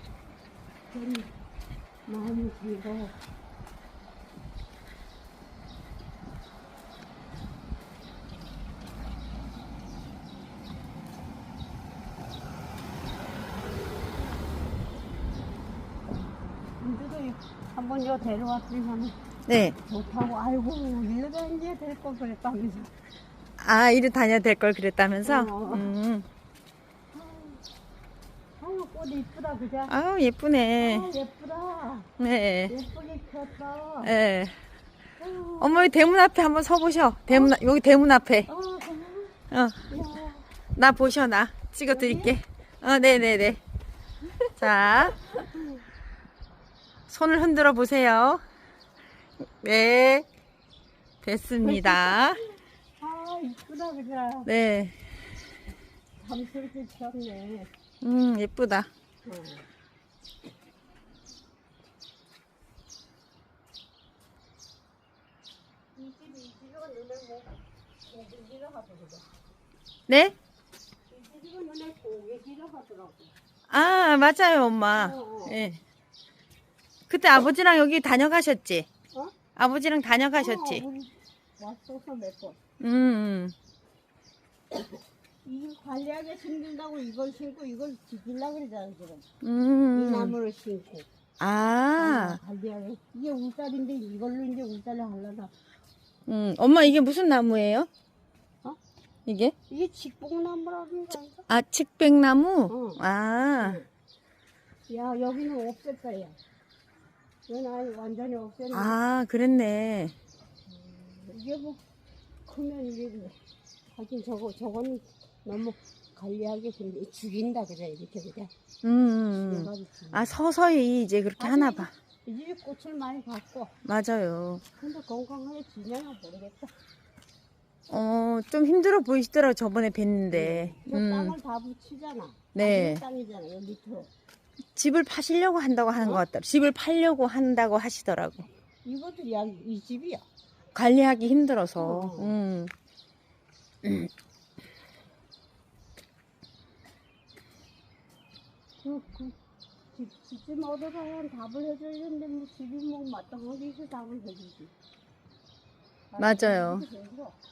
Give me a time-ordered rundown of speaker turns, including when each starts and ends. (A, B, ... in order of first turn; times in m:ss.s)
0:00.9-0:01.3 A
0:02.1-0:03.1 A
0:16.8-0:19.2 A
0:19.5-0:19.8 B
0:19.8-0:22.9 A
0:23.6-0:26.3 B
0:25.2-0:25.9 A
0:27.1-0:27.6 A
0:28.6-0:29.9 A
0:29.9-0:31.1 B
0:30.8-0:32.1 A
0:32.2-0:32.8 B
0:32.7-0:34.1 A
0:34.0-0:34.5 B
0:35.2-0:35.9 A
0:35.6-0:38.5 B
0:38.5-0:39.4 A
0:39.5-0:39.9 B
0:39.9-0:40.5 A
0:40.8-0:43.6 B
0:41.9-0:42.4 A
0:44.6-0:45.2 B
0:45.2-0:45.7 A
0:47.1-0:48.4 B
0:49.6-0:50.3 B
0:51.2-0:52.4 B
0:51.6-0:52.4 A
0:53.0-0:54.5 A
0:54.4-0:54.9 B
0:56.2-0:57.7 A
0:58.0-0:58.9 B
0:59.2-0:59.6 A
1:06.0-1:09.2 A
1:10.1-1:10.3 B
1:11.1-1:13.3 A
1:13.7-1:15.8 B
1:14.9-1:15.6 A
1:17.1-1:18.9 B
1:19.1-1:19.4 A
1:19.6-1:20.8 B
1:20.3-1:22.6 A
1:22.8-1:23.5 B
1:25.4-1:29.2 A
1:29.4-1:30.4 B
1:29.9-1:31.1 A
1:31.4-1:32.4 B
1:32.0-1:35.5 A
1:36.3-1:37.9 B
1:39.2-1:39.5 B
1:39.7-1:41.4 A
1:41.5-1:43.8 B
1:42.7-1:43.0 A
1:43.6-1:43.8 A
1:44.9-1:46.4 A
1:47.5-1:49.0 A
1:48.7-1:50.1 B
1:50.7-1:51.8 A
1:52.4-1:53.4 A
1:53.9-1:58.5 A
1:58.8-2:01.9 B
1:59.3-2:00.3 A
2:01.4-2:03.7 A
2:03.8-2:04.6 B
2:04.8-2:06.7 A
2:07.9-2:11.4 B
2:10.3-2:14.1 A
2:12.5-2:13.0 B
2:14.7-2:18.5 B
2:16.0-2:16.2 A
2:18.8-2:20.2 A
2:20.7-2:22.7 B
2:21.8-2:22.3 A
2:28.8-2:29.3 A
2:29.9-2:34.7 A
2:36.1-2:37.4 A
2:36.2-2:36.8 B